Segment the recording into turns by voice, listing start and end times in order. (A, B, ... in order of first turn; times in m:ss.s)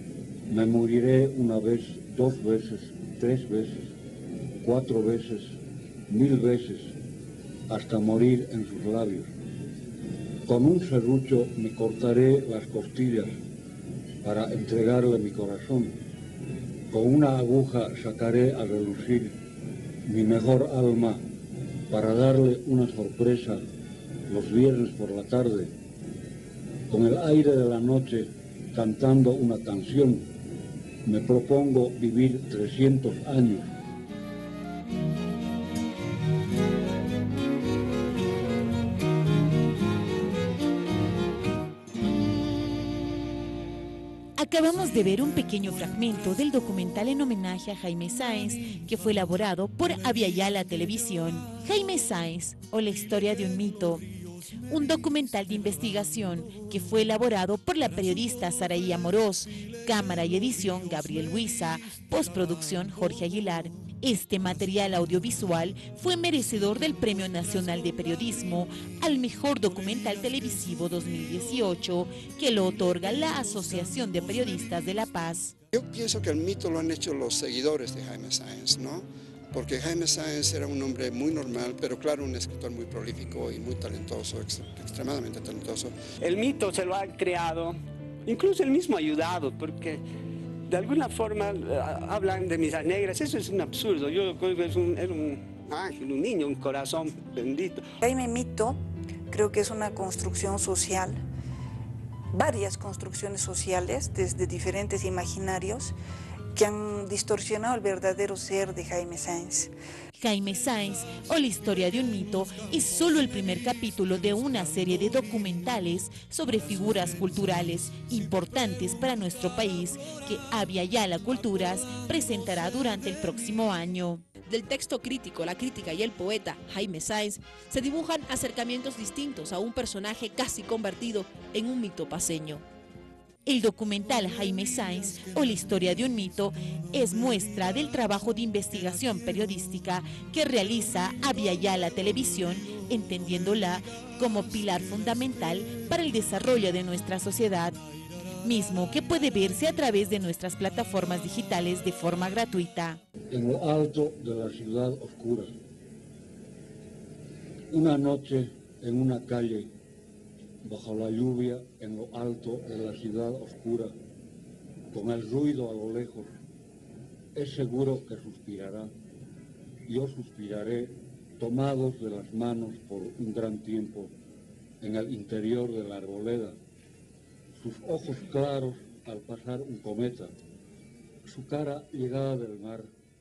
0:00.5-0:03.9 A
0:04.6-0:07.0 A
0:07.7-0:09.3 A
0:10.4-0:13.4 A
0:14.2-0:16.0 A
0:16.9-0:19.4 A
0:20.0-0:21.2 A
0:21.9-0:23.6 A
0:24.3-0:25.7 A
0:26.9-0:30.3 A
0:31.0-0:33.7 A
0:44.4-0:54.0 B
0:54.7-1:15.5 B
1:15.7-1:25.9 C
1:26.2-1:30.0 D
1:30.7-1:37.9 D
1:38.0-1:38.8 E
1:39.3-1:41.2 E
1:42.3-1:45.9 E
1:46.5-1:49.7 E
1:50.1-2:04.2 B
2:04.4-2:12.6 F
2:13.4-2:27.8 B
2:28.4-2:33.0 B
2:33.3-2:35.5 A
2:37.7-2:39.7 A
2:40.6-2:43.9 A
2:44.9-2:46.3 A
2:47.3-2:48.9 A
2:49.9-2:54.1 A
2:54.8-2:56.6 A
2:57.5-3:00.3 A
3:01.2-3:02.9 A